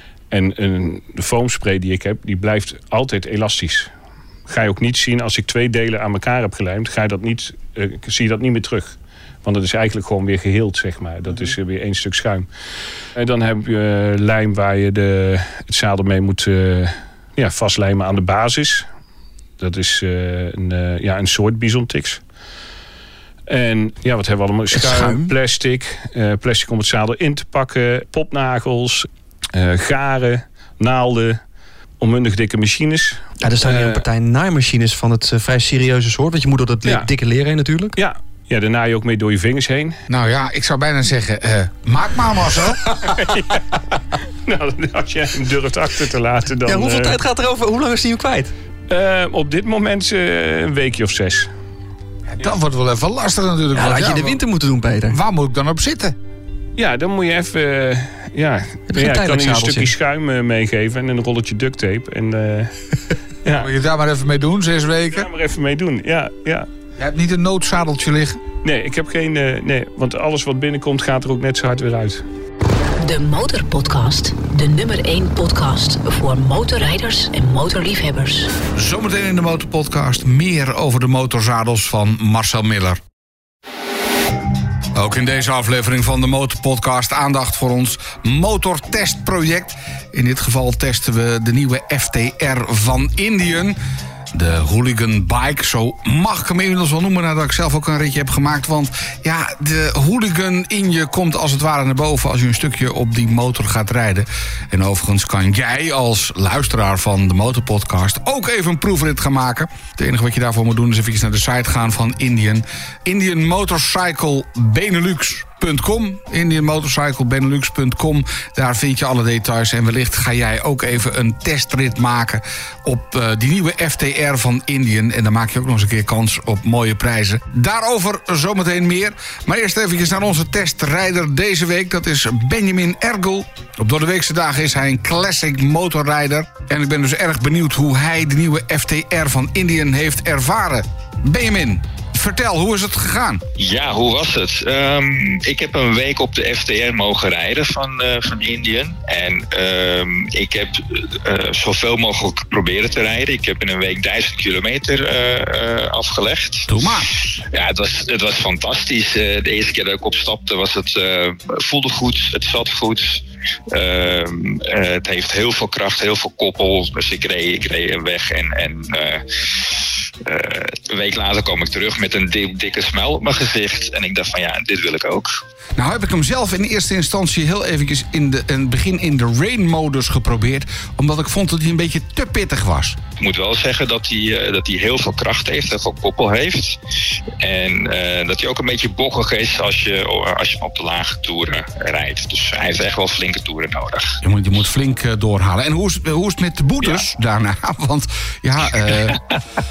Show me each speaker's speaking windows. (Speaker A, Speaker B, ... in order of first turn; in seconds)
Speaker A: 0.3-3.9, 4.5-12.5, 13.2-18.9, 19.6-22.2, 23.5-31.4, 32.0-34.0, 38.0-40.0, 43.0-47.2, 48.9-51.5, 56.8-62.7, 63.4-63.7, 65.1-66.7, 68.6-72.2
Speaker B: 24.7-25.3, 33.4-38.0, 46.6-48.5, 53.7-55.2, 58.9-59.9
Speaker C: 40.1-42.9, 52.3-54.4, 55.1-56.1, 63.5-65.3, 67.0-68.4, 78.7-83.0, 84.9-93.8, 94.3-143.4, 156.7-157.1, 175.8-183.0, 194.2-199.2
Speaker D: 73.0-78.5
Speaker E: 143.6-156.7, 157.5-175.4, 183.2-186.8, 187.4-194.2, 198.9-199.4